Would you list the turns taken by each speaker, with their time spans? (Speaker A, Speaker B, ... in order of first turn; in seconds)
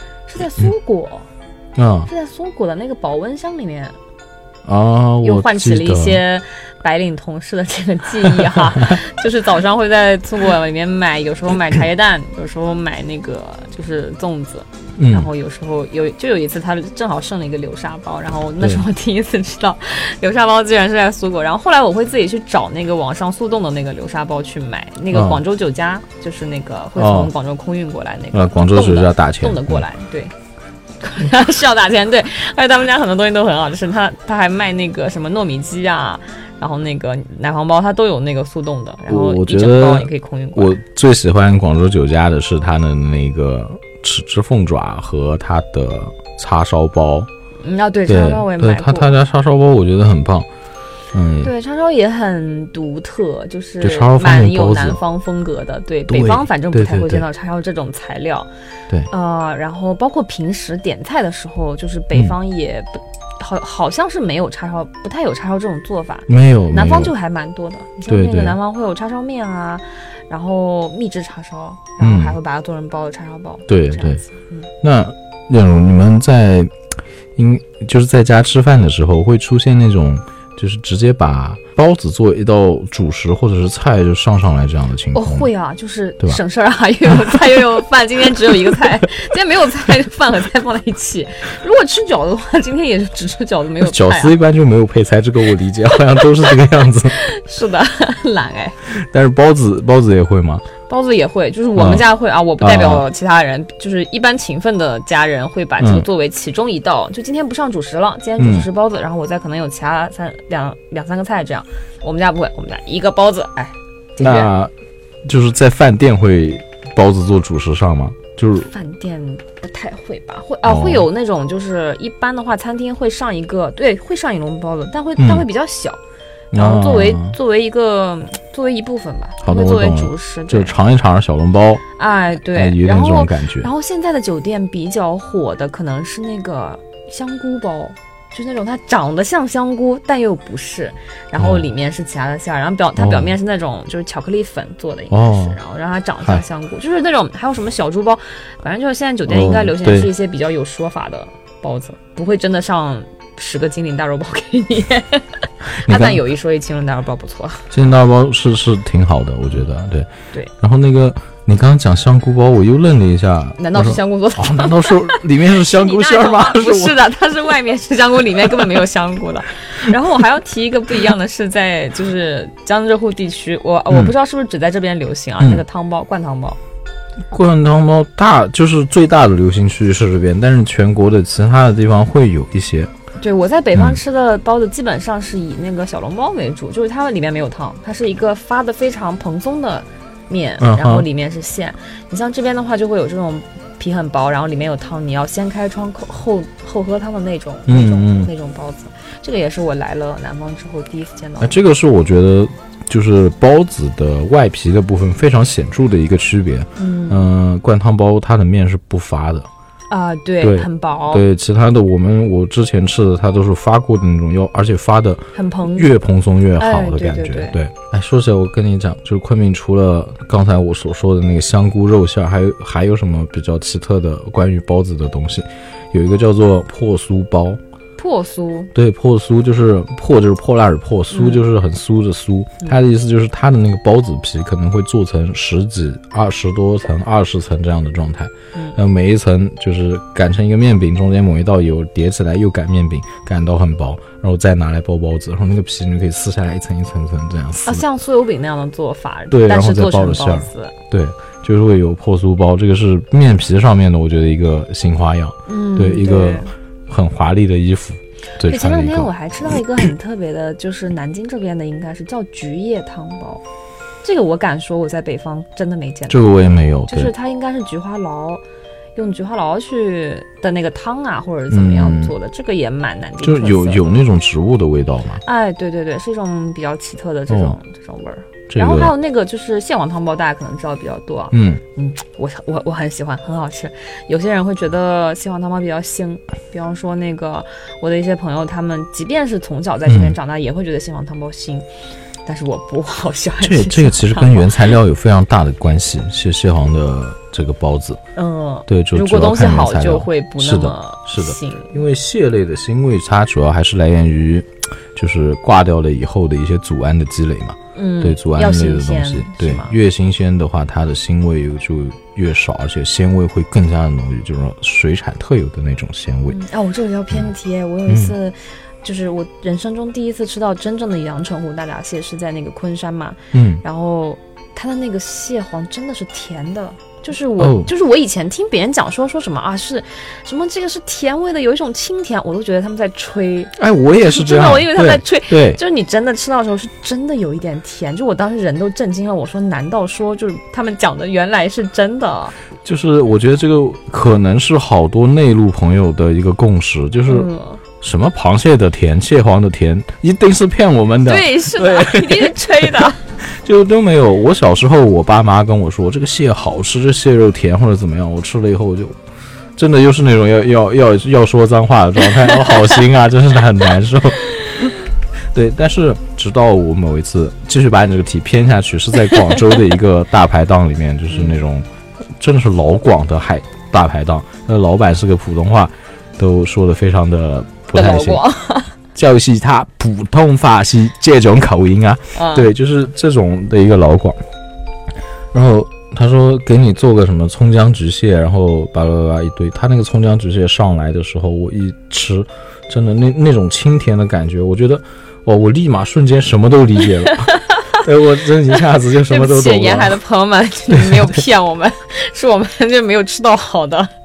Speaker A: 0.3-1.3, 2.1-4.0, 5.2-30.3, 31.0-40.8, 47.6-49.1, 51.4-58.5, 59.1-74.7, 85.1-94.3, 96.1-96.5, 97.1-98.8, 100.9-114.5, 118.6-126.0, 126.5-130.7, 132.0-157.7, 163.6-176.6, 183.2-201.6, 206.8-207.3, 209.9-211.2, 215.3-215.9, 216.6-217.6, 228.0-228.7, 231.1-231.4, 247.6-250.7, 255.5-256.5, 258.4-263.4, 264.0-266.2, 266.9-268.4, 268.9-273.9, 275.2-291.6, 292.2-294.6, 298.1-301.8, 307.7-309.8, 316.3-342.3, 347.1-347.6, 351.0-353.0, 371.1-371.3, 377.7-378.7, 382.1-382.5, 397.0-397.8, 399.1-403.9
Speaker B: 1.8-2.1, 4.6-6.2, 15.0-15.3, 25.1-25.4, 27.0-27.3, 28.3-29.8, 39.1-47.3, 48.1-50.5, 51.1-51.5, 53.8-55.0, 56.1-57.2, 66.3-67.1, 68.1-68.6, 72.0-72.4, 73.7-74.2, 74.8-76.7, 77.3-85.5, 93.8-97.2, 98.9-100.7, 101.8-102.0, 102.6-103.0, 105.8-106.0, 108.4-108.7, 114.2-114.7, 115.2-118.7, 120.6-121.1, 125.2-125.5, 126.5-127.3, 129.4-131.8, 132.5-133.7, 141.4-141.6, 143.0-143.3, 145.1-145.6, 149.3-150.1, 155.8-156.2, 157.7-167.0, 177.3-182.9, 190.6-191.1, 197.7-198.3, 201.4-209.5, 210.4-227.6, 228.7-247.8, 249.3-259.1, 266.1-267.1, 271.5-272.1, 273.2-275.2, 277.3-277.6, 278.5-278.9, 281.3-281.6, 289.9-290.1, 293.4-298.0, 298.7-316.4, 317.9-318.1, 323.3-323.6, 327.4-327.7, 333.6-335.6, 342.6-347.3, 347.8-359.0, 359.6-364.8, 365.3-371.6, 372.2-378.2, 378.9-384.2, 385.3-400.0, 400.7-401.2